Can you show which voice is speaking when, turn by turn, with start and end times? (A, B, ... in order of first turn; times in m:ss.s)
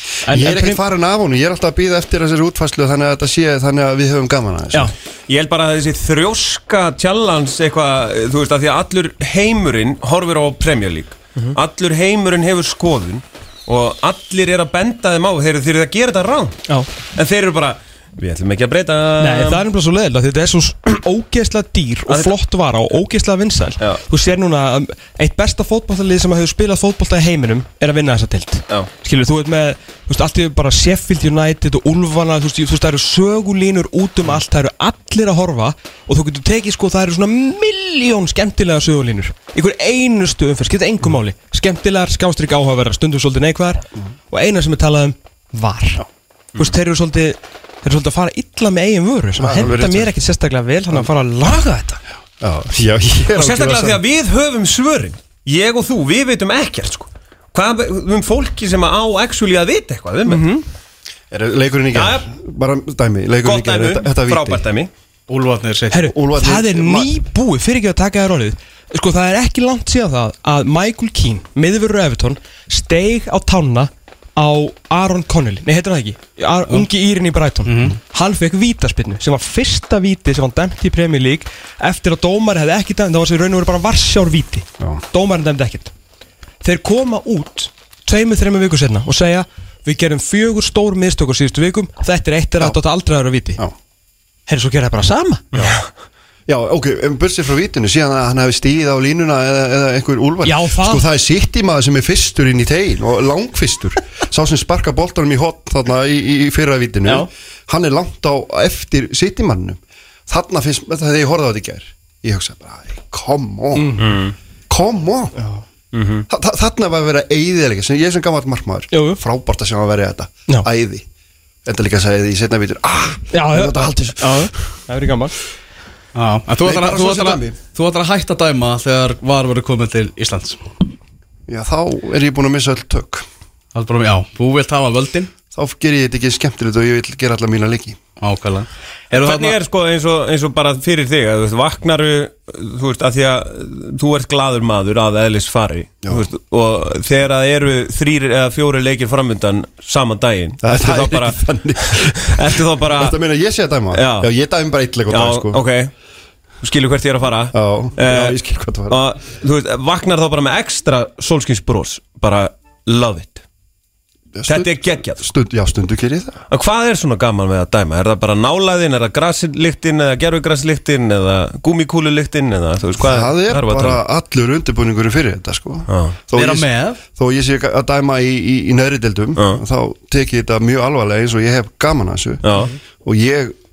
0:00.2-0:00.8 A
0:00.3-0:04.9 B
0:05.3-0:16.6 C
0:17.2-0:19.6 C
0:19.2-0:46.0 A
0:46.6-0:52.0 A
0:49.4-0:50.1 B
0:52.4-0:54.0 B
0:53.4-1:00.5 C
1:00.3-1:00.6 A
1:01.3-1:04.6 B
1:01.9-1:02.3 C
1:03.4-1:04.9 C
1:05.3-1:06.1 D
1:05.9-1:25.9 A
1:06.1-1:07.1 B
1:17.6-1:18.0 D
1:26.6-1:33.6 A
1:34.5-1:35.6 A
1:35.5-1:35.8 C
1:36.5-1:54.1 B
1:40.4-1:41.1 A
1:53.8-1:54.1 A
1:54.0-1:54.3 C
1:54.7-1:55.4 B
1:55.4-1:55.6 A
1:55.9-1:56.3 C
1:56.3-2:01.0 B
1:58.9-1:59.2 A
2:01.6-2:04.5 B
2:03.3-2:05.4 A
2:06.2-2:10.6 D
2:06.6-2:07.6 B
2:11.5-2:13.2 B
2:13.8-2:15.3 D
2:15.5-2:18.0 B
2:18.2-2:19.6 D
2:19.1-2:33.2 C
2:30.6-2:35.6 B
2:33.9-2:34.3 C
2:35.1-2:35.9 C
2:36.6-2:43.4 C
2:37.5-2:39.0 B
2:44.4-2:46.4 B
2:44.5-2:45.3 C
2:46.5-2:54.0 C
2:53.0-3:03.6 B
2:55.9-2:56.2 C
2:56.3-2:57.0 D
2:59.4-2:59.6 C
3:02.4-3:02.7 C